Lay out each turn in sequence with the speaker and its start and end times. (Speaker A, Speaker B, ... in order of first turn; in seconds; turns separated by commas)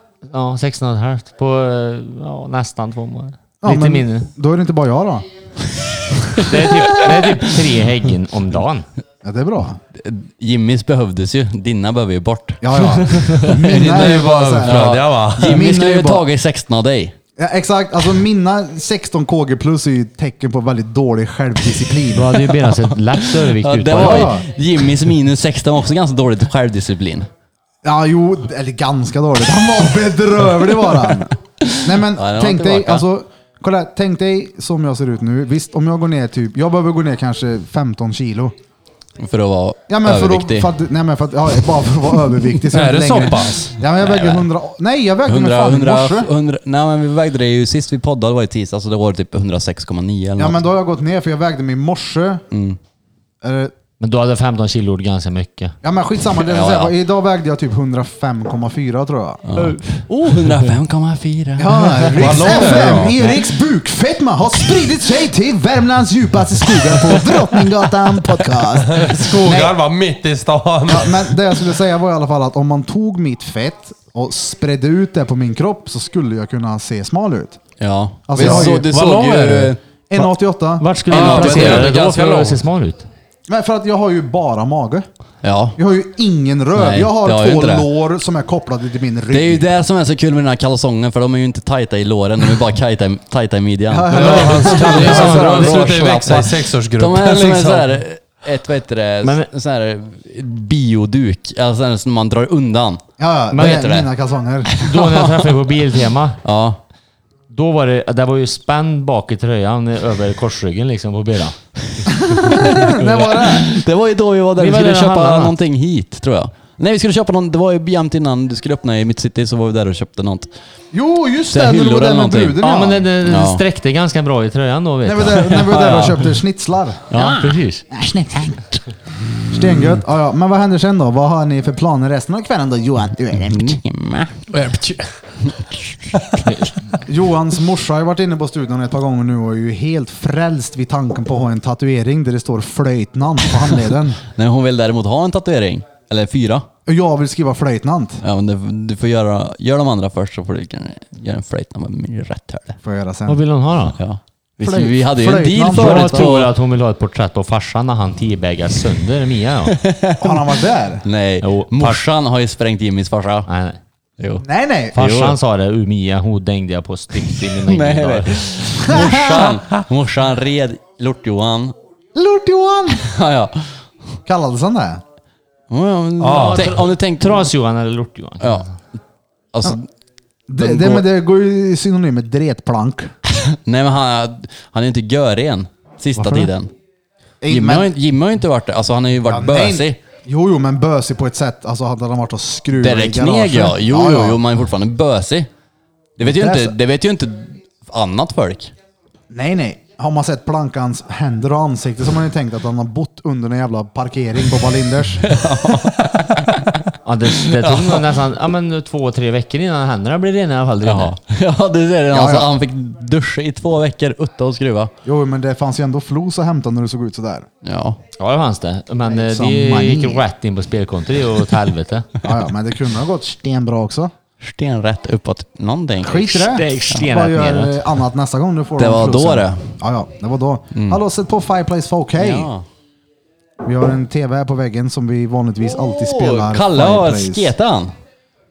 Speaker A: 0.3-4.3, Speaker B: 3.6-5.3, Speaker B: 6.3-7.1, Speaker A: 6.4-8.8, Speaker B: 9.2-9.8, Speaker C: 9.9-12.9, Speaker B: 12.6-16.2, Speaker D: 13.4-15.6, Speaker C: 14.7-17.1, Speaker B: 17.4-22.4, Speaker A: 22.1-24.4, Speaker C: 22.8-27.3, Speaker B: 24.0-24.4, Speaker B: 27.8-38.5, Speaker C: 31.6-33.0, Speaker C: 39.2-40.7, Speaker B: 39.9-46.3, Speaker D: 42.7-43.7, Speaker C: 44.0-44.5, Speaker C: 45.2-50.6, Speaker B: 50.4-52.4, Speaker C: 52.5-52.8, Speaker B: 53.4-53.7, Speaker A: 54.0-55.8, Speaker B: 55.8-59.4, Speaker C: 56.4-56.9, Speaker C: 59.4-63.3, Speaker B: 61.6-69.8, Speaker D: 62.1-63.1, Speaker D: 68.8-71.3, Speaker B: 70.9-77.6, Speaker C: 77.8-80.2, Speaker B: 78.3-78.9, Speaker D: 78.4-79.8, Speaker B: 80.1-80.9, Speaker A: 80.8-83.1, Speaker C: 81.1-82.4, Speaker D: 81.1-82.6, Speaker B: 83.5-85.1, Speaker C: 85.4-85.8, Speaker B: 85.8-89.7, Speaker C: 86.7-87.9, Speaker C: 89.3-103.0, Speaker B: 93.9-96.0, Speaker D: 94.1-97.9, Speaker A: 94.2-96.0, Speaker A: 99.2-99.5, Speaker B: 103.2-104.8, Speaker A: 103.5-103.8, Speaker C: 103.6-104.1, Speaker C: 104.7-105.5, Speaker A: 104.8-106.4, Speaker C: 106.4-106.8, Speaker A: 107.5-112.8, Speaker B: 112.2-113.8, Speaker C: 112.5-120.5, Speaker A: 114.6-115.5, Speaker B: 120.9-123.1, Speaker C: 121.5-122.6, Speaker A: 122.6-126.1, Speaker C: 123.2-123.6, Speaker B: 125.0-127.1, Speaker C: 125.7-126.2, Speaker C: 127.1-127.6, Speaker A: 127.1-127.8, Speaker B: 127.9-128.8, Speaker B: 129.5-133.8, Speaker C: 133.5-134.4, Speaker D: 134.5-135.1, Speaker C: 135.4-136.0, Speaker D: 136.2-136.4, Speaker B: 137.0-144.2, Speaker C: 144.3-146.7, Speaker B: 146.8-148.2, Speaker C: 148.2-152.8, Speaker B: 152.8-153.4, Speaker A: 153.3-154.0, Speaker C: 154.0-156.5, Speaker B: 154.6-156.3, Speaker A: 155.6-159.8, Speaker C: 159.7-160.5, Speaker B: 160.2-161.0, Speaker C: 161.0-163.5, Speaker A: 161.4-162.0, Speaker A: 163.5-163.8, Speaker C: 164.2-164.4, Speaker B: 164.4-165.3, Speaker A: 164.9-168.9, Speaker C: 165.1-165.3, Speaker C: 167.5-171.7, Speaker B: 168.8-169.5, Speaker B: 172.1-173.1, Speaker C: 172.9-174.2, Speaker B: 174.2-175.0, Speaker C: 175.7-177.4, Speaker D: 176.2-176.7, Speaker A: 176.3-178.7, Speaker C: 178.4-178.7, Speaker C: 179.5-179.9, Speaker B: 180.5-183.1, Speaker C: 180.6-181.1, Speaker C: 183.3-186.7, Speaker B: 186.1-186.5, Speaker B: 187.4-187.9, Speaker C: 187.5-190.0, Speaker B: 189.2-194.4, Speaker C: 192.8-195.5, Speaker C: 196.2-198.7, Speaker B: 196.2-196.8, Speaker B: 199.3-205.3, Speaker C: 205.2-206.9, Speaker A: 207.0-211.1, Speaker C: 207.5-208.0, Speaker C: 210.8-214.9, Speaker B: 212.1-212.5, Speaker B: 215.0-217.5, Speaker C: 217.6-218.0, Speaker A: 218.2-222.1, Speaker B: 219.1-220.2, Speaker B: 222.2-224.1, Speaker C: 224.4-226.5, Speaker B: 226.0-232.5, Speaker A: 226.4-227.9, Speaker C: 228.8-229.7, Speaker C: 230.7-231.0, Speaker C: 232.2-232.7, Speaker B: 233.6-237.5, Speaker C: 235.7-237.9